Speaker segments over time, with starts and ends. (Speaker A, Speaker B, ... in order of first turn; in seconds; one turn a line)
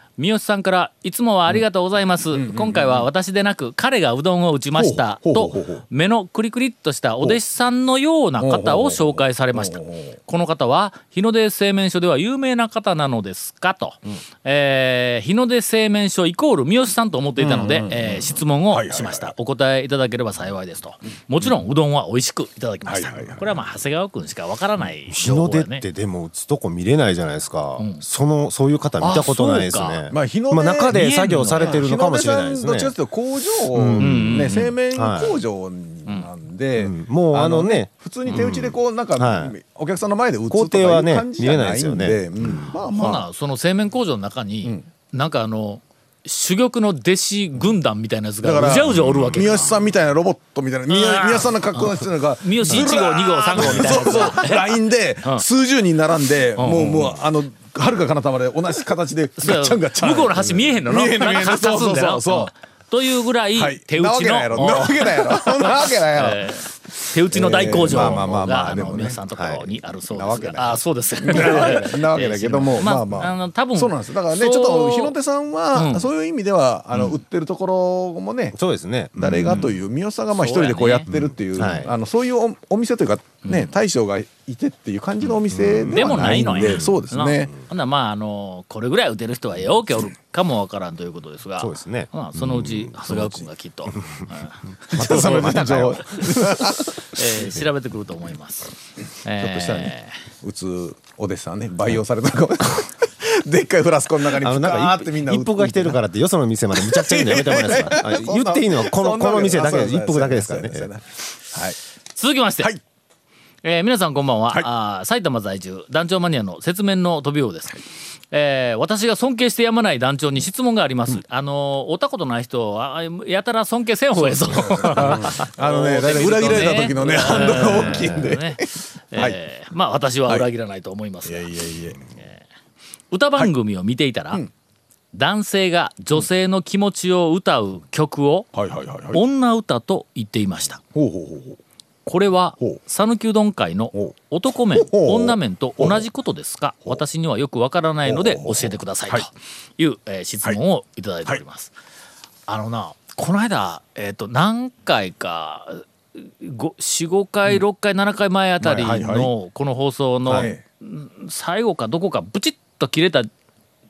Speaker A: 0.2-25.9
Speaker B: 2.3-3.1
Speaker B: 4.8-5.8
Speaker B: 8.4-10.2
Speaker B: 17.4-19.3
Speaker B: 22.9-23.6
Speaker C: 25.1-33.0
Speaker A: 27.8-28.0
Speaker A: 29.0-30.0
Speaker B: 30.1-43.3
Speaker A: 30.9-31.9
Speaker C: 33.7-35.4
Speaker A: 34.0-34.7
Speaker C: 36.8-39.5
Speaker C: 40.5-42.8
Speaker A: 42.9-49.7
Speaker B: 48.4-62.5
Speaker C: 48.8-49.9
Speaker A: 50.9-55.5
Speaker C: 53.6-53.9
Speaker A: 56.6-57.1
Speaker A: 59.4-75.2
Speaker B: 63.6-66.5
Speaker B: 67.3-69.2
Speaker C: 67.9-69.8
Speaker B: 70.1-78.6
Speaker A: 75.7-76.1
Speaker A: 76.9-77.2
Speaker C: 78.5-79.8
Speaker B: 79.2-87.5
Speaker A: 80.3-81.1
Speaker C: 81.1-82.0
Speaker A: 83.5-83.7
Speaker C: 85.5-87.0
Speaker A: 85.9-100.2
Speaker C: 91.6-93.2
Speaker B: 93.1-93.5
Speaker C: 93.9-94.4
Speaker C: 94.9-96.8
Speaker B: 95.0-97.0
Speaker C: 97.4-97.6
Speaker C: 99.4-99.9
Speaker B: 100.4-106.0
Speaker C: 104.3-110.9
Speaker B: 106.8-111.8
Speaker A: 112.2-112.7
Speaker A: 113.6-131.5
Speaker B: 124.2-129.4
Speaker C: 127.4-128.3
Speaker B: 131.2-132.0
Speaker A: 133.1-134.4
Speaker A: 135.1-138.5
Speaker B: 138.5-139.2
Speaker A: 139.1-140.8
Speaker B: 140.9-141.6
Speaker A: 142.1-151.7
Speaker B: 144.8-146.1
Speaker B: 148.1-149.3
Speaker A: 152.5-163.3
Speaker B: 158.6-159.3
Speaker C: 160.3-160.5
Speaker B: 160.3-160.6